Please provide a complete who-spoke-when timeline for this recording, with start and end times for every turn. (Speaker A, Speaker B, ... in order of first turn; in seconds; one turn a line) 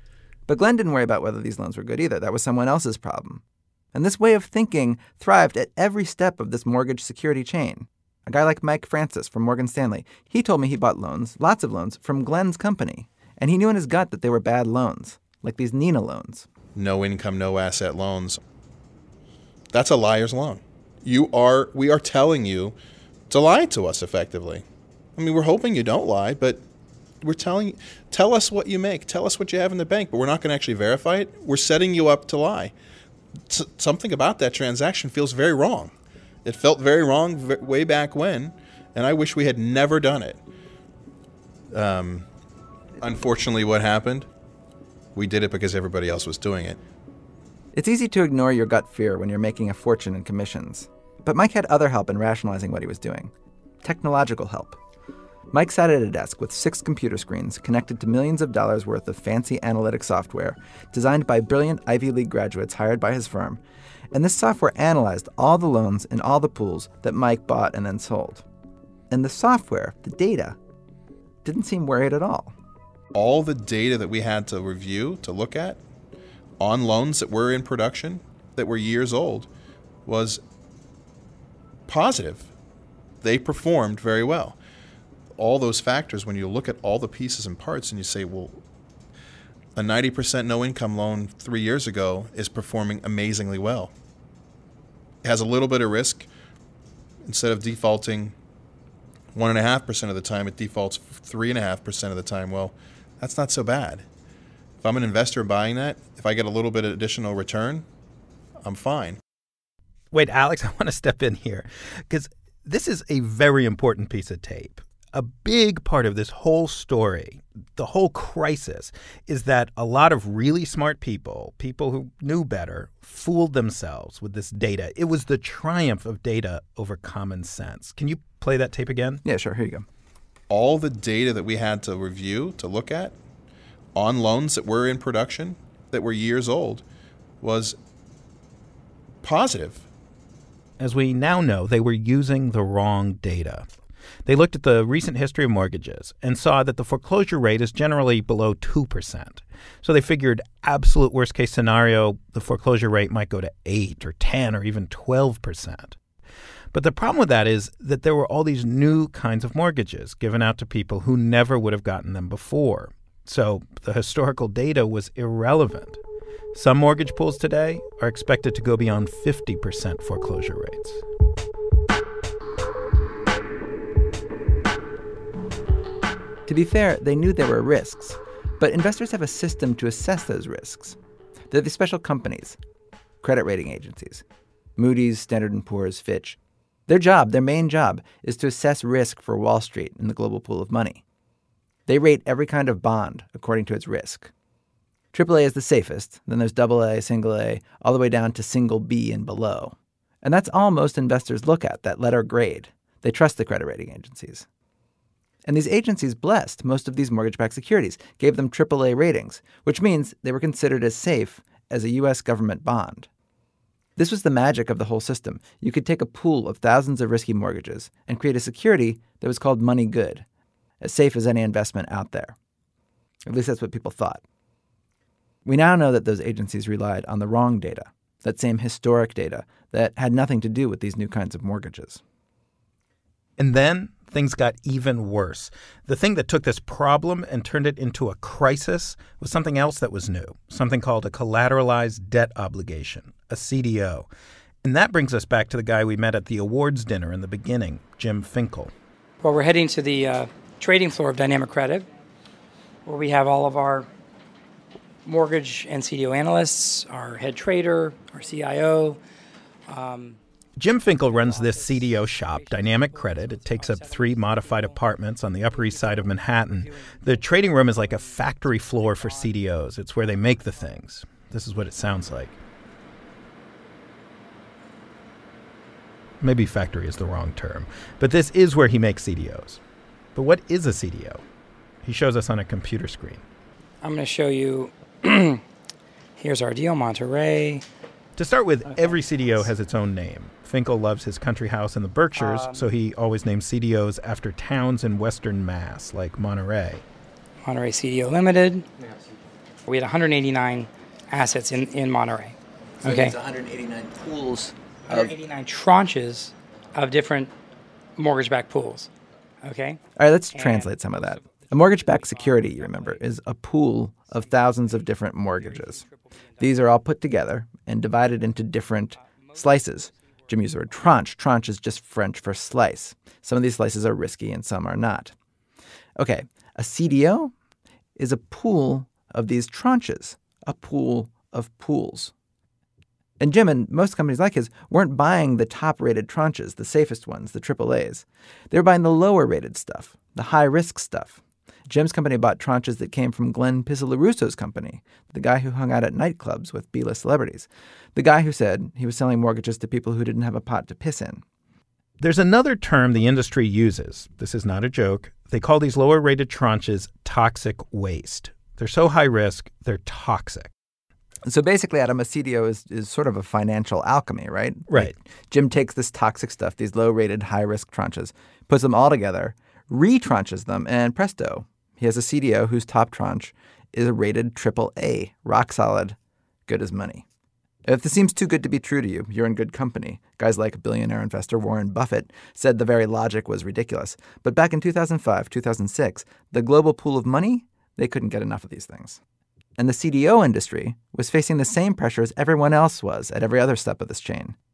Speaker A: 0.5-3.4
Speaker A: 3.9-16.5
Speaker B: 16.8-18.4
Speaker B: 19.7-22.8
Speaker B: 23.3-24.6
Speaker B: 25.2-26.6
Speaker B: 27.2-32.7
Speaker B: 33.5-35.9
Speaker B: 36.5-40.4
Speaker B: 41.7-42.3
Speaker B: 43.0-44.3
Speaker B: 45.1-46.8
Speaker A: 47.7-53.3
Speaker A: 53.8-54.8
Speaker A: 55.5-63.6
Speaker A: 64.1-68.5
Speaker A: 69.1-70.6
Speaker A: 71.5-72.5
Speaker B: 73.1-75.8
Speaker B: 76.6-79.5
Speaker B: 80.0-80.4
Speaker B: 81.9-82.5
Speaker B: 83.2-84.6
Speaker B: 85.4-88.6
Speaker B: 89.8-93.9
Speaker B: 95.2-96.3
Speaker B: 97.2-98.3
Speaker B: 99.3-104.0
Speaker B: 104.8-107.8
Speaker B: 108.6-109.2
Speaker C: 110.1-129.2
Speaker A: 129.2-129.9
Speaker B: 130.5-133.2
Speaker B: 133.9-136.8
Speaker B: 137.4-137.8
Speaker B: 139.2-139.9
Speaker C: 140.8-143.7
Speaker C: 144.3-156.0
Speaker C: 156.7-166.0
Speaker C: 166.5-171.0
Speaker A: 176.5-181.0
Speaker A: 181.5-182.6
Speaker A: 183.2-184.2
Speaker A: 184.8-191.0
Speaker A: 191.9-194.3
Speaker A: 195.1-204.5
Speaker A: 205.5-213.1
Speaker A: 214.0-220.2
Speaker A: 220.8-222.3
Speaker A: 223.3-224.2
Speaker A: 225.4-232.0
Speaker C: 233.4-244.1
Speaker C: 244.6-248.7
Speaker D: 249.2-251.9
Speaker D: 252.9-253.9
Speaker D: 255.1-259.0
Speaker D: 259.7-260.2
Speaker C: 260.6-272.4
Speaker D: 261.1-264.8
Speaker D: 265.5-269.4
Speaker C: 276.2-279.6
Speaker C: 280.1-281.2
Speaker C: 281.8-283.2
Speaker D: 283.8-285.4
Speaker D: 286.2-287.6
Speaker C: 288.2-296.8
Speaker D: 288.7-289.4
Speaker D: 292.1-292.7
Speaker D: 297.4-298.7
Speaker D: 299.7-303.2
Speaker E: 302.8-305.0
Speaker D: 304.9-307.3
Speaker D: 308.0-308.9
Speaker D: 309.4-309.8
Speaker A: 310.0-315.9
Speaker D: 310.3-313.0
Speaker D: 314.3-314.8
Speaker D: 315.3-316.5
Speaker A: 316.4-325.1
Speaker D: 319.0-319.9
Speaker A: 326.0-327.3
Speaker A: 328.0-332.1
Speaker A: 333.2-351.2
Speaker C: 352.0-360.5
Speaker A: 361.2-377.1
Speaker C: 364.7-364.9
Speaker A: 377.6-389.0
Speaker A: 389.6-394.4